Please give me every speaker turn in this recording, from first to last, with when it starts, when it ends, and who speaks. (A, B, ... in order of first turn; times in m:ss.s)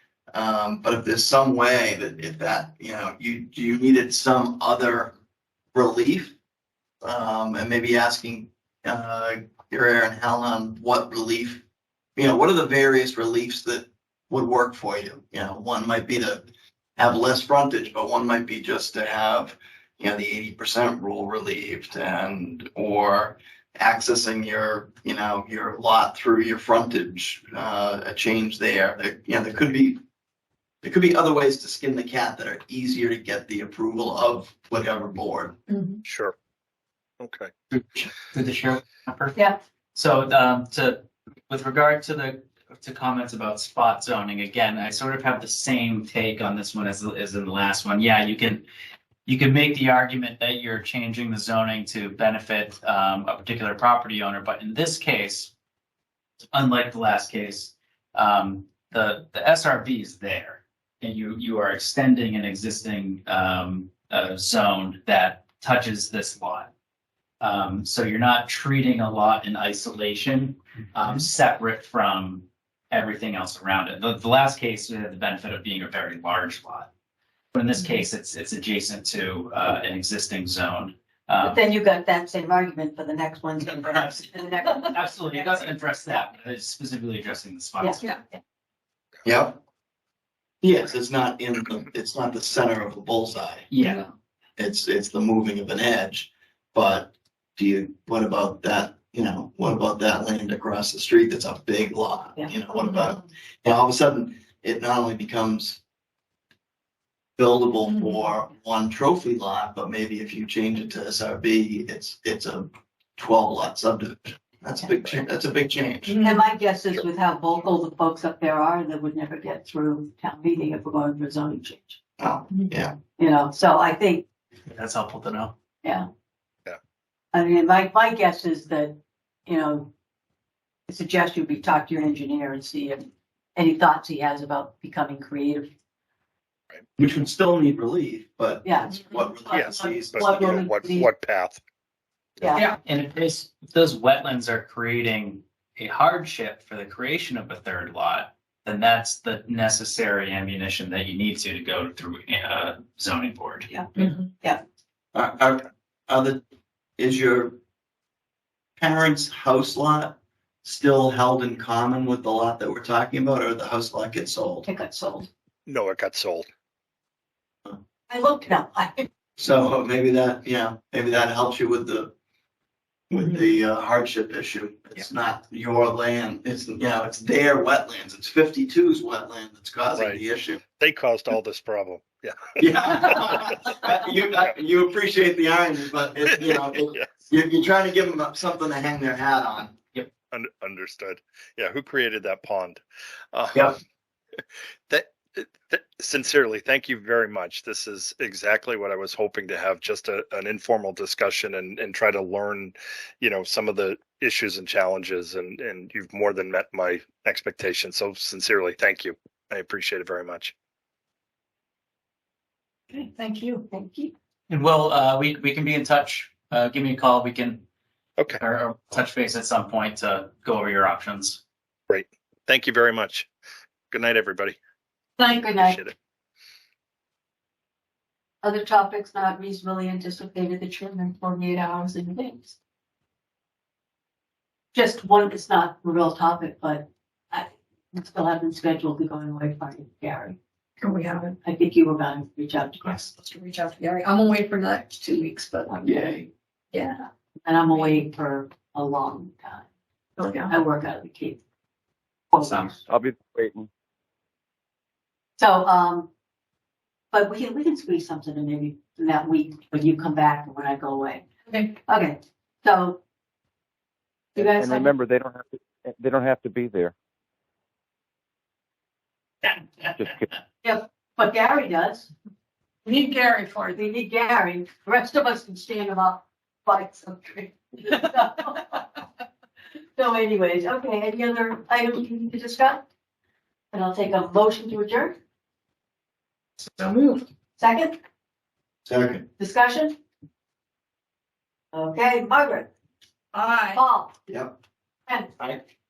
0:00.3-0:05.1 A
0:05.7-0:06.4 A
0:07.0-0:11.6 A
0:12.2-0:16.4 A
0:17.0-0:30.0 A
0:30.8-0:35.6 A
0:35.7-0:36.0 B
0:36.0-0:36.4 C
0:37.2-0:37.5 C
0:37.7-0:48.6 D
0:49.3-0:55.5 D
0:56.5-1:06.7 D
1:07.4-1:16.9 D
1:17.5-1:21.6 D
1:21.4-1:25.3 E
1:24.9-1:28.0 D
1:29.2-1:29.6 A
1:30.6-1:33.7 A
1:33.7-1:34.1 D
1:34.6-1:45.8 A
1:47.4-1:56.3 A
1:56.2-2:02.0 E
2:02.2-2:03.0 A
2:03.2-2:04.3 E
2:04.7-2:05.6 D
2:07.3-2:09.9 E
2:10.9-2:15.7 E
2:17.0-2:20.6 A
2:18.6-2:21.1 E
2:19.5-2:21.6 C
2:22.4-2:22.6 C
2:22.4-2:22.7 E
2:22.8-2:33.7 D
2:33.7-2:34.6 E
2:35.1-2:36.4 A
2:37.0-2:37.6 A
2:38.8-2:44.7 A
2:44.7-2:45.3 E
2:45.7-2:46.5 C
2:48.1-2:49.1 E
2:49.4-2:52.1 A
2:53.1-3:00.6 A
2:59.9-3:00.2 C
3:00.7-3:03.6 C
3:02.6-3:09.8 A
3:06.3-3:07.1 C
3:10.3-3:12.8 C
3:13.3-3:13.8 C
3:14.9-3:30.5 C
3:32.9-3:34.1 E
3:33.2-3:33.7 B
3:34.5-3:37.6 D
3:38.4-3:41.4 D
3:41.9-3:43.3 C
3:43.9-3:44.6 C
3:45.2-3:45.9 E
3:45.2-3:45.9 C
3:48.4-3:52.6 E
3:54.7-4:00.4 E
4:00.8-4:01.4 B
4:01.4-4:03.1 E
4:03.0-4:05.9 B
4:05.7-4:06.0 E
4:05.8-4:06.3 A
4:06.7-4:07.1 B
4:07.4-4:09.7 E
4:10.2-4:10.6 B
4:10.5-4:11.4 E
4:12.3-4:12.8 E
4:12.4-4:12.8 D
4:12.9-4:13.7 F
4:15.4-4:16.1 E
4:17.1-4:21.3 E
4:21.5-4:21.8 B
4:21.9-4:23.0 E
4:24.4-4:27.0 F
4:24.4-4:24.9 E
4:29.9-4:30.3 F
4:30.6-4:32.1 E
4:32.9-4:33.8 B
4:33.7-4:39.0 E
4:40.0-4:42.9 E
4:43.7-4:45.2 E
4:46.6-4:47.3 B
4:47.6-4:48.0 E
4:48.9-4:49.3 A
4:49.4-4:50.0 E
4:51.7-4:52.7 E
4:53.3-4:53.8 B
4:53.7-4:54.2 E
4:54.3-4:54.5 A
4:55.1-4:55.3 E